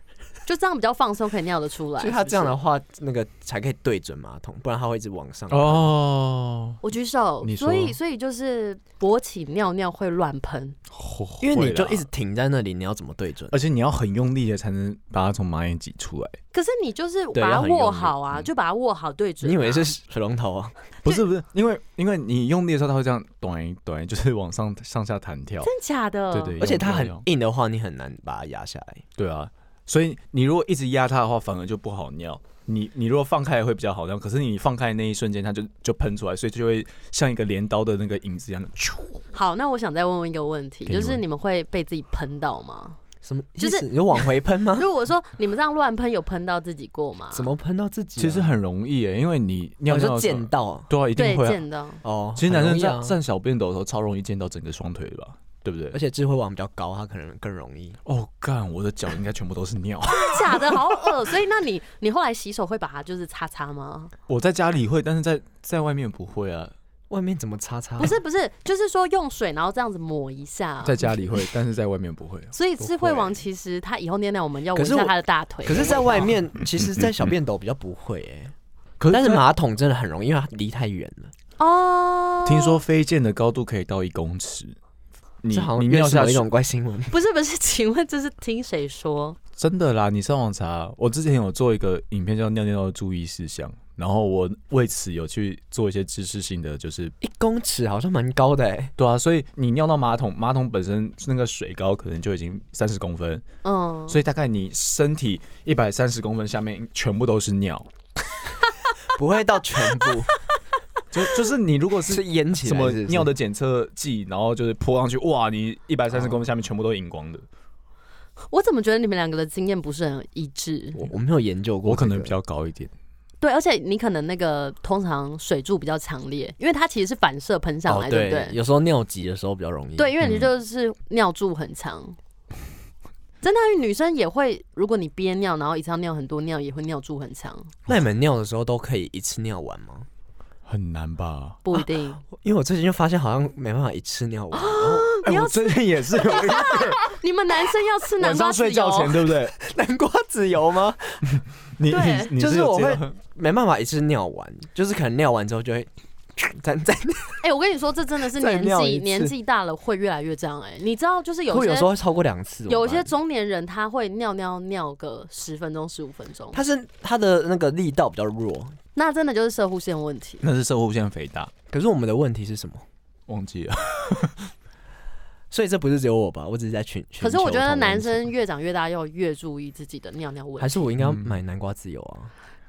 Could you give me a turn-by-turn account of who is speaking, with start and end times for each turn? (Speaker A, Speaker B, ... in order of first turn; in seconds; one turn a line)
Speaker A: 0.5-2.6
Speaker B: 2.0-5.9
Speaker C: 5.5-6.8
Speaker A: 6.8-10.8
Speaker C: 7.4-8.0
Speaker C: 10.9-12.1
Speaker B: 11.4-13.6
Speaker C: 13.5-16.4
Speaker A: 16.5-19.9
Speaker B: 17.3-18.1
Speaker B: 19.4-20.8
Speaker C: 21.0-25.7
Speaker A: 25.6-26.6
Speaker C: 26.3-27.2
Speaker B: 26.6-29.0
Speaker C: 29.2-39.2
Speaker A: 39.3-43.0
Speaker C: 40.9-41.2
Speaker B: 43.2-44.9
Speaker A: 43.6-47.5
Speaker B: 47.3-48.5
Speaker C: 48.2-51.6
Speaker B: 49.9-50.9
Speaker A: 51.2-52.0
Speaker B: 52.0-53.2
Speaker C: 52.4-56.0
Speaker B: 55.9-58.0
Speaker C: 58.0-61.2
Speaker A: 60.1-64.1
Speaker C: 64.3-66.7
Speaker B: 67.1-68.2
Speaker A: 68.0-71.1
Speaker C: 70.8-73.4
Speaker A: 72.5-76.3
Speaker B: 74.8-78.5
Speaker C: 79.0-79.4
Speaker B: 79.1-81.3
Speaker A: 81.6-82.8
Speaker C: 82.5-84.8
Speaker C: 85.4-86.5
Speaker B: 85.5-87.1
Speaker A: 87.1-89.4
Speaker C: 89.6-97.2
Speaker B: 97.2-98.9
Speaker C: 99.0-103.4
Speaker A: 103.6-104.2
Speaker C: 104.1-107.9
Speaker B: 109.1-110.3
Speaker C: 111.1-117.5
Speaker B: 112.1-113.3
Speaker A: 118.5-121.0
Speaker B: 121.0-122.3
Speaker C: 121.8-122.9
Speaker A: 123.4-128.6
Speaker B: 127.9-130.1
Speaker A: 130.0-132.2
Speaker C: 130.2-130.5
Speaker A: 133.4-137.7
Speaker B: 137.9-140.1
Speaker C: 140.7-141.6
Speaker A: 141.7-142.2
Speaker B: 142.3-145.2
Speaker A: 144.5-149.2
Speaker C: 145.2-147.1
Speaker B: 146.3-146.7
Speaker C: 148.2-149.6
Speaker B: 149.5-151.4
Speaker C: 151.8-153.2
Speaker A: 151.9-152.3
Speaker B: 152.3-157.4
Speaker A: 157.4-161.9
Speaker B: 158.3-159.3
Speaker B: 161.5-163.1
Speaker A: 162.7-166.6
Speaker B: 166.5-168.8
Speaker A: 169.0-170.4
Speaker C: 170.4-171.5
Speaker B: 171.7-172.9
Speaker C: 173.3-174.5
Speaker B: 175.5-178.2
Speaker A: 177.2-180.9
Speaker B: 180.6-182.3
Speaker C: 181.0-181.3